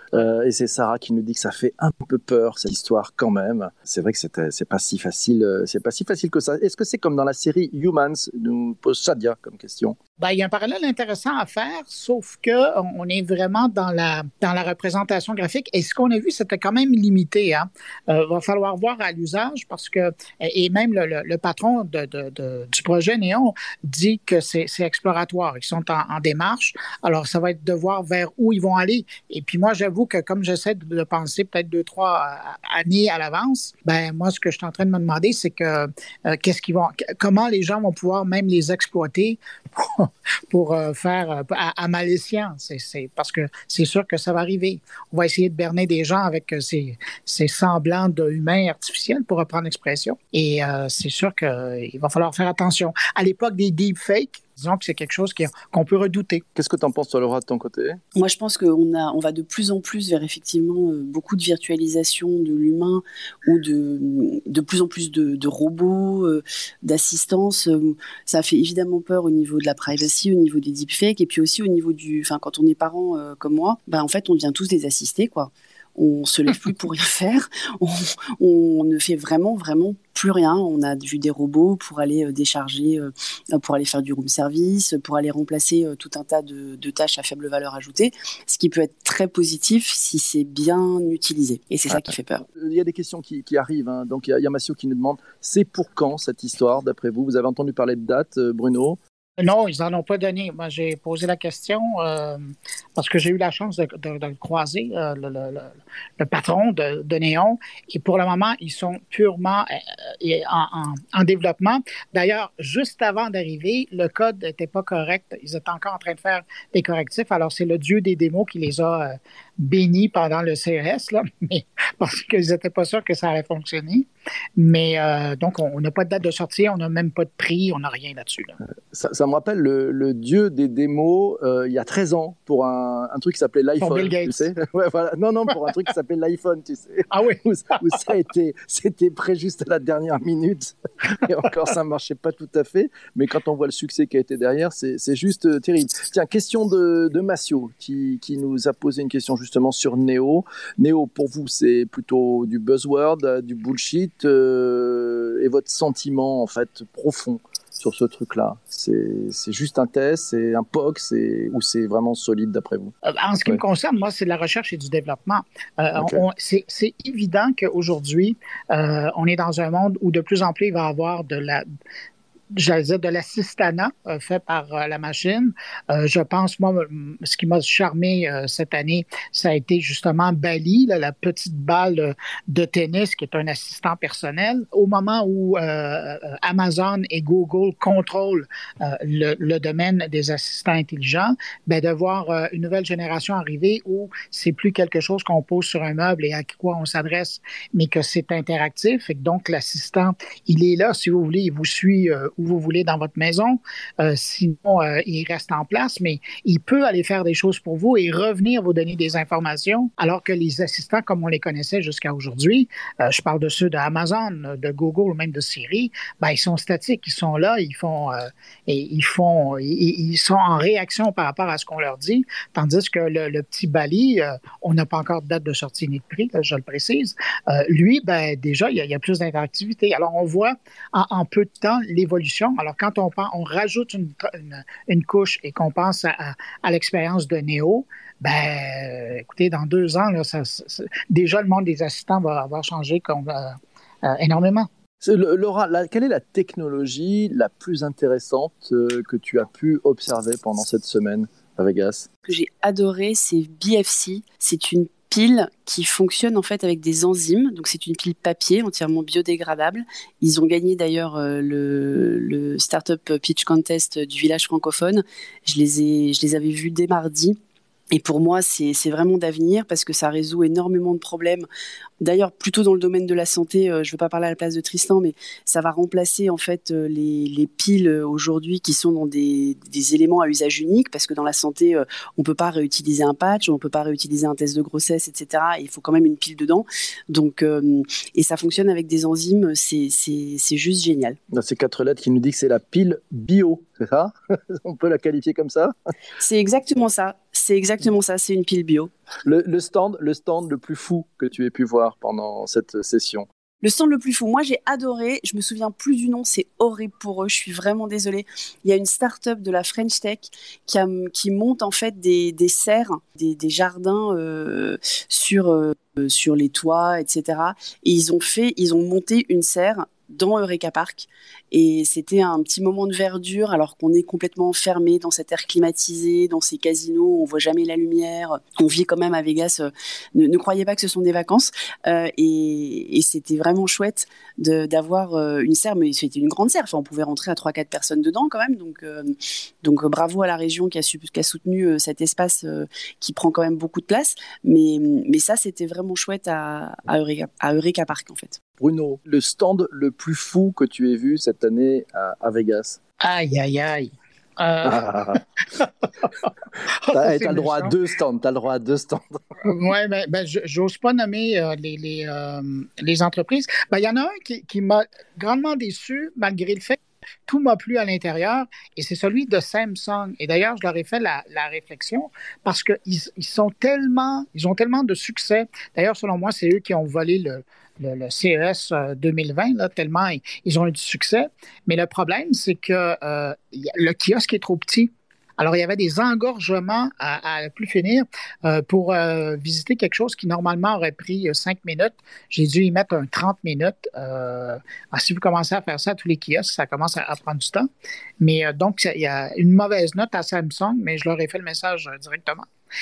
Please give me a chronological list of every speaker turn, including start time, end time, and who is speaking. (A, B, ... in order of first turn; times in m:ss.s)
0:00.1-0:10.0 A
0:10.2-0:56.4 B
0:56.5-0:58.0 A
0:58.2-1:32.4 C
1:32.0-1:39.0 A
1:39.4-2:08.6 B
2:08.9-2:42.9 A
2:13.8-2:14.5 B
2:17.1-2:17.4 B
2:43.0-2:51.6 B
2:46.0-2:46.2 A
2:52.5-4:04.7 B
4:05.0-4:12.1 A
4:12.3-4:27.4 C
4:27.9-4:31.5 C
4:32.0-4:51.2 C
4:51.3-4:55.7 A
4:56.2-4:58.9 C
4:59.2-5:03.3 A
5:03.6-5:48.4 C
5:48.6-5:52.8 A
5:53.0-5:56.3 B
5:54.6-5:55.2 A
5:56.8-5:57.7 B
5:56.9-5:59.2 A
5:59.4-6:37.7 B
6:38.2-6:42.5 B